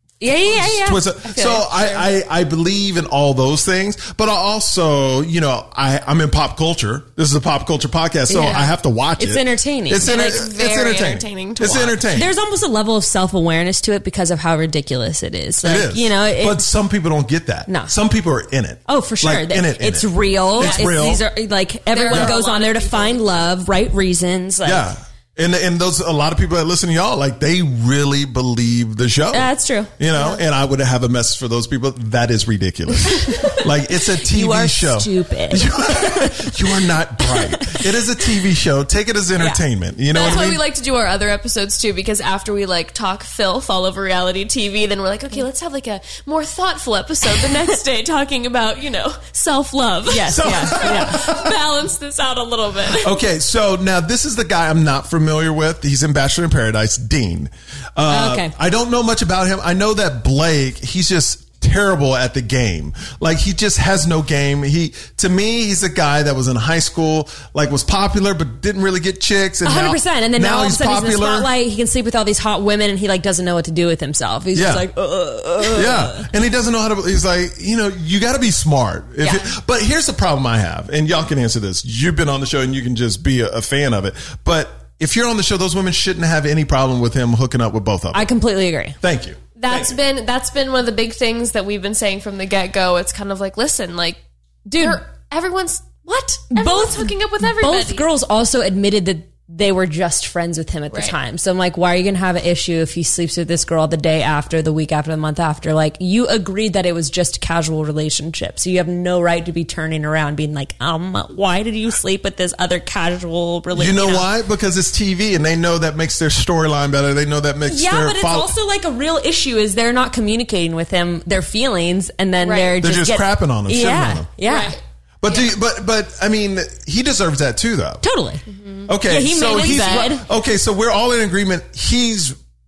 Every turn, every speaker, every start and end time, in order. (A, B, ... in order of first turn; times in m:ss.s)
0:00.2-0:02.0 A
0:00.4-0:12.3 B
0:08.3-0:10.4 A
0:08.4-0:08.6 C
0:10.0-0:12.0 C
0:12.1-0:16.6 A
0:15.6-0:21.2 B
0:17.7-0:17.9 A
0:18.9-0:24.9 A
0:20.6-0:21.1 C
0:21.9-0:23.4 C
0:24.6-0:40.6 B
0:29.3-0:30.3 A
0:34.2-0:36.5 A
0:37.2-0:37.9 A
0:40.1-0:53.1 C
0:50.1-0:51.2 A
0:50.3-0:51.4 B
0:53.0-1:11.5 B
0:58.1-0:58.5 A
1:09.6-1:16.3 A
1:14.5-1:14.8 B
1:15.7-1:28.3 B
1:19.2-1:19.5 A
1:28.1-1:29.0 A
1:29.0-1:30.0 B
1:29.6-1:34.2 C
1:34.6-1:35.0 A
1:34.8-1:38.0 C
1:36.5-1:54.3 A
1:40.9-1:41.2 C
1:53.7-1:58.5 B
1:57.6-2:04.8 A
2:02.4-2:02.8 C
2:02.8-2:04.3 B
2:04.4-2:05.5 C
2:05.2-2:08.0 B
2:08.0-2:08.4 A
2:08.5-2:10.1 C
2:08.9-2:12.4 B
2:09.0-2:10.2 A